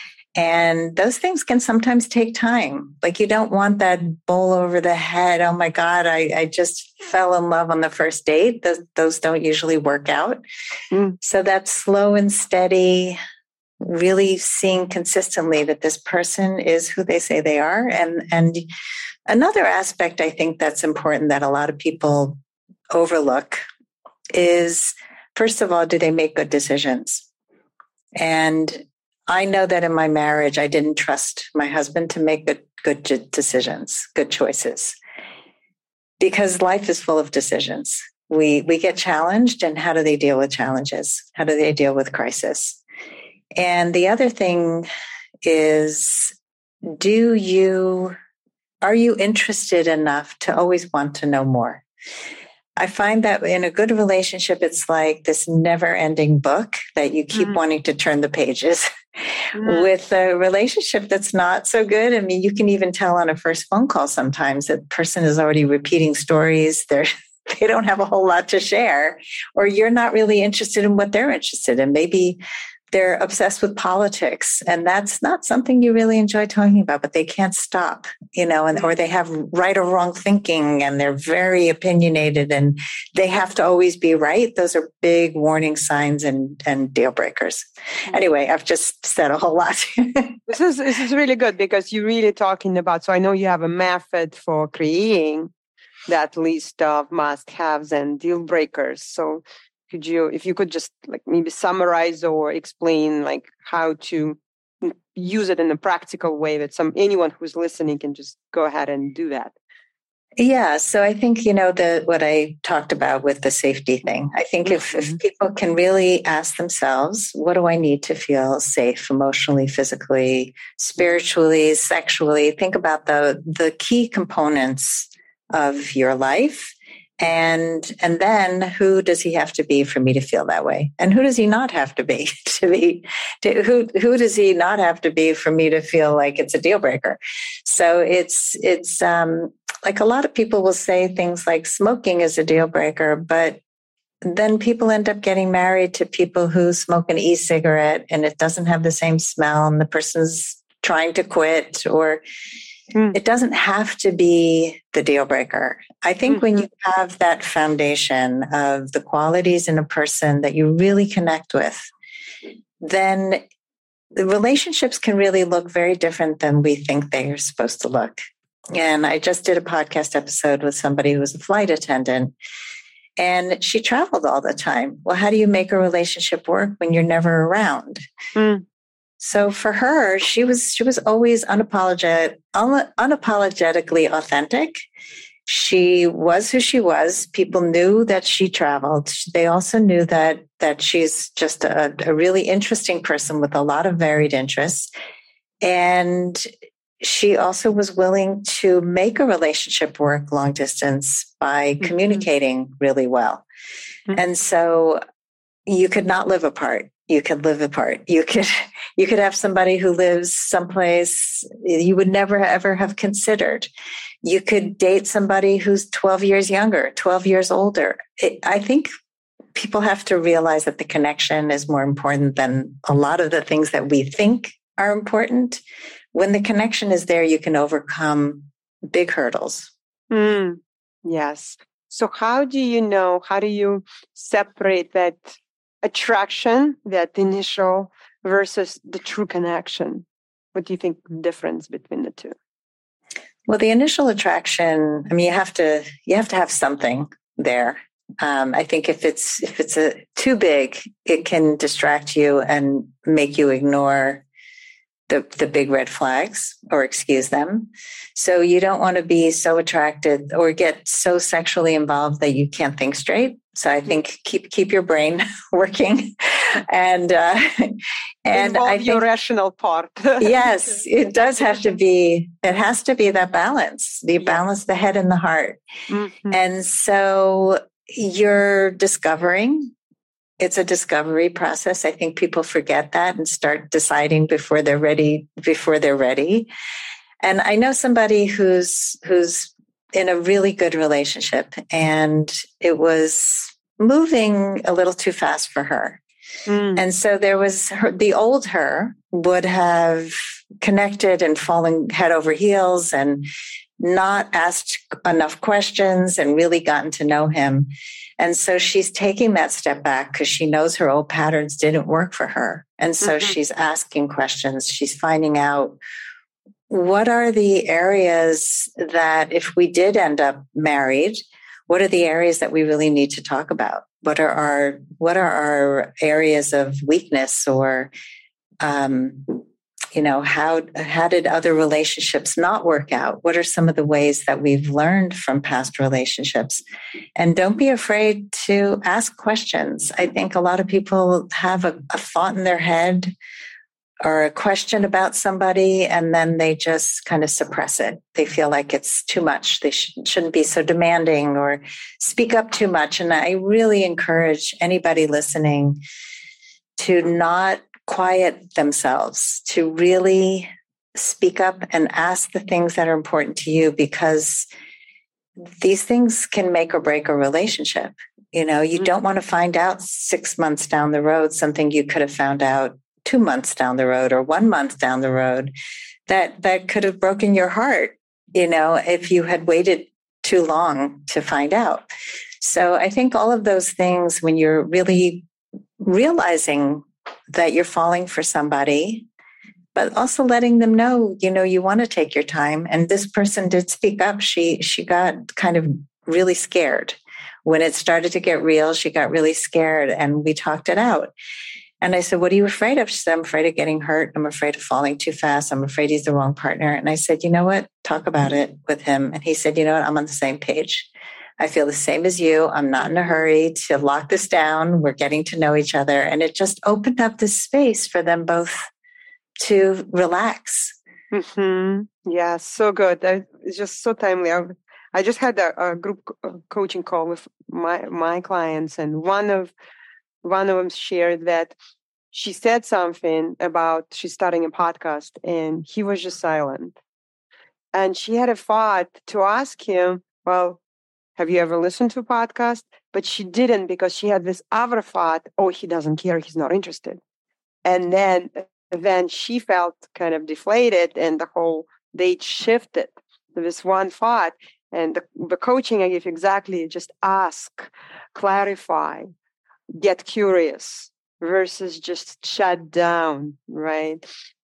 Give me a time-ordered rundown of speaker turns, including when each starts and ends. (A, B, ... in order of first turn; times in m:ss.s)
0:00.4-0:10.4 A
0:11.2-0:13.2 A
0:13.8-0:18.7 A
0:19.3-0:22.4 A
0:22.9-0:23.6 A
0:24.3-0:27.3 A
0:28.2-0:35.0 A
0:36.2-0:42.8 A
0:43.6-0:44.9 A
0:45.4-0:46.3 A
0:46.9-0:48.2 A
0:48.8-0:51.8 A
0:52.8-1:12.4 A
0:59.6-0:59.9 B
1:12.9-1:30.5 A
1:30.5-1:35.5 B
1:36.1-1:49.5 B
1:50.4-2:23.6 A
1:54.9-1:55.2 B
2:24.2-2:32.2 A
2:33.1-2:41.9 A
2:42.8-2:43.4 A
2:44.2-2:52.3 A
2:53.2-2:58.0 A
2:58.4-2:58.6 B
2:59.2-3:04.8 A
3:05.5-3:14.9 A
3:15.6-3:16.5 A
3:17.0-3:23.4 A
3:24.1-3:25.0 A
3:25.7-3:33.7 A
3:34.2-3:38.9 A
3:39.6-3:45.6 A
3:46.1-3:49.7 A
3:50.1-4:02.4 B
4:03.5-4:14.2 A
4:15.1-4:29.0 A
4:28.3-4:30.5 B
4:30.2-4:35.6 A
4:35.9-4:36.4 B
4:36.3-4:39.7 A
4:40.4-4:46.5 A
4:47.2-4:56.0 A
4:56.5-4:56.8 B
4:56.8-5:03.3 A
5:03.8-5:15.8 A
5:16.7-5:27.9 A
5:28.6-5:29.4 A
5:29.9-5:36.6 A
5:37.2-5:43.1 A
5:44.0-5:55.8 A
5:56.8-6:04.5 A
6:05.4-6:15.5 A
6:16.1-6:21.9 A
6:22.4-6:25.2 A
6:25.8-6:29.1 A
6:29.8-6:41.1 A
6:41.8-6:58.7 A
6:59.4-7:00.8 A
7:01.1-7:09.5 B
7:10.2-7:11.6 B
7:12.1-7:16.8 B
7:17.7-7:20.6 B
7:21.2-7:27.0 B
7:27.6-7:39.1 B
7:39.7-7:44.0 B